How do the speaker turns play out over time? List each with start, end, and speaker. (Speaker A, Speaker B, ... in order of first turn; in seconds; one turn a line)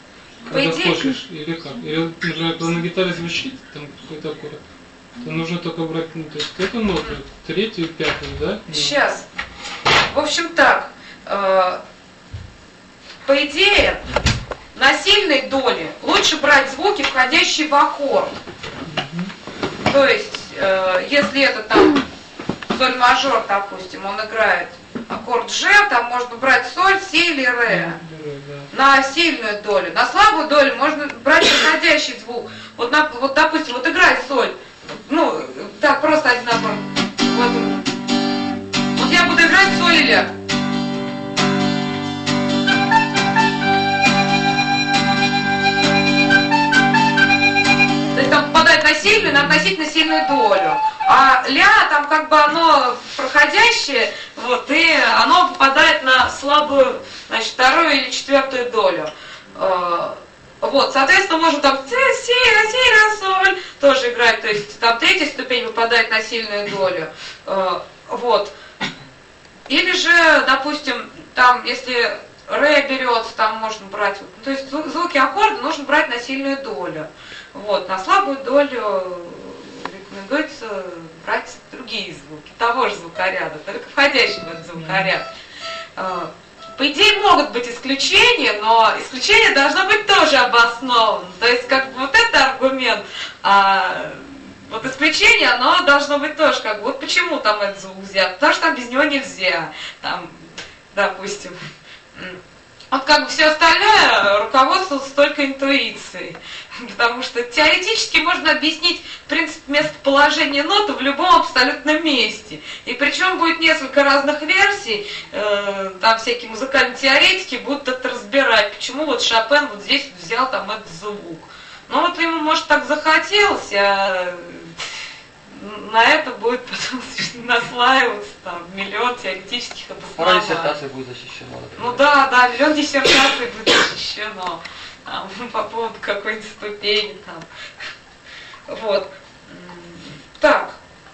Speaker A: 0.5-1.2
Speaker B: 0.5-4.6
Speaker B: 5.2-9.0
Speaker A: 8.7-9.2
Speaker A: 10.1-11.8
Speaker A: 13.2-14.0
Speaker A: 14.7-18.3
Speaker B: 18.9-19.3
Speaker A: 19.9-22.0
Speaker A: 22.7-28.0
Speaker B: 27.7-28.7
Speaker A: 28.7-37.9
Speaker A: 39.0-40.3
Speaker A: 48.1-68.5
Speaker A: 69.7-85.2
Speaker A: 86.0-101.6
Speaker A: 102.1-102.4
Speaker A: 102.9-124.7
Speaker A: 125.5-130.8
Speaker C: 130.2-132.2
Speaker A: 131.8-137.5
Speaker A: 138.7-140.8